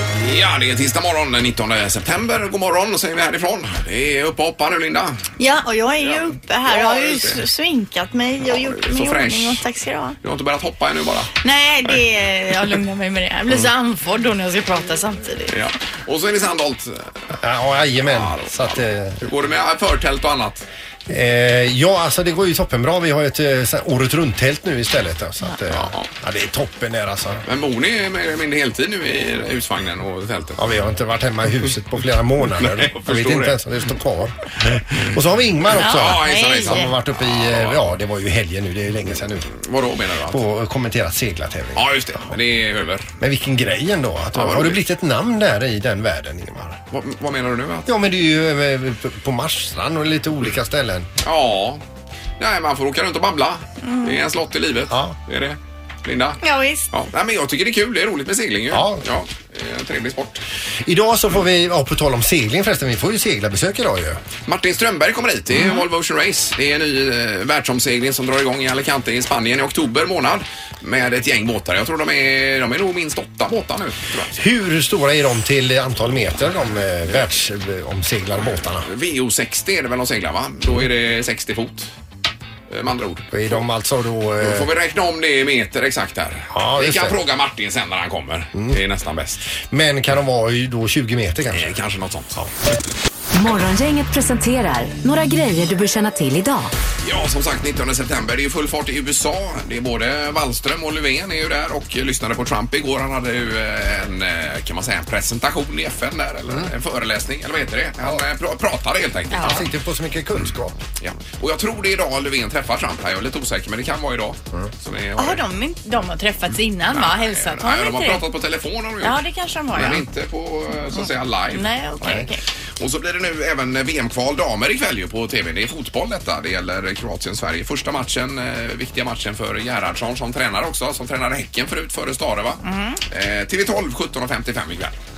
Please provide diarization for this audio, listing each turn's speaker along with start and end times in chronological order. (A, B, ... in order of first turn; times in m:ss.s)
0:00.2-0:05.2 A
0:05.4-0:10.2 B
0:06.0-0:07.4 A
0:08.4-0:09.6 A
0:10.2-0:11.3 A
0:11.4-0:15.6 B
0:15.5-0:17.4 A
0:17.4-0:19.3 C
0:18.0-0:20.7 A
0:21.1-0:27.4 C
0:25.7-0:26.1 A
0:27.4-0:30.6 A
0:30.6-0:39.5 C
0:32.6-0:33.6 A
0:35.7-0:38.0 A
0:35.7-0:36.9 B
0:39.5-0:40.4 A
0:40.3-0:42.4 C
0:41.7-0:43.1 A
0:43.2-0:46.8 C
0:44.3-0:44.8 A
0:46.9-0:47.9 A
0:47.8-0:51.1 C
0:51.2-0:51.8 A
0:52.4-0:56.4 A
0:53.8-0:54.2 B
0:54.9-0:55.2 C
0:56.4-0:56.9 B
0:56.9-1:00.4 A
0:58.7-0:59.1 C
1:00.8-1:04.2 C
1:04.5-1:14.4 A
1:14.3-1:18.9 C
1:18.8-1:21.9 A
1:22.7-1:23.6 A
1:23.3-1:24.7 C
1:24.4-1:29.5 A
1:26.5-1:27.2 C
1:29.5-1:31.7 C
1:31.5-1:32.4 A
1:33.3-1:36.7 D
1:37.0-1:49.6 A
1:49.3-1:49.6 B
1:49.4-1:50.8 C
1:51.0-1:55.4 A
1:55.2-1:58.2 B
1:56.9-2:14.9 A
1:59.0-2:00.0 B
2:00.9-2:02.4 B
2:02.0-2:02.3 C
2:12.6-2:13.0 B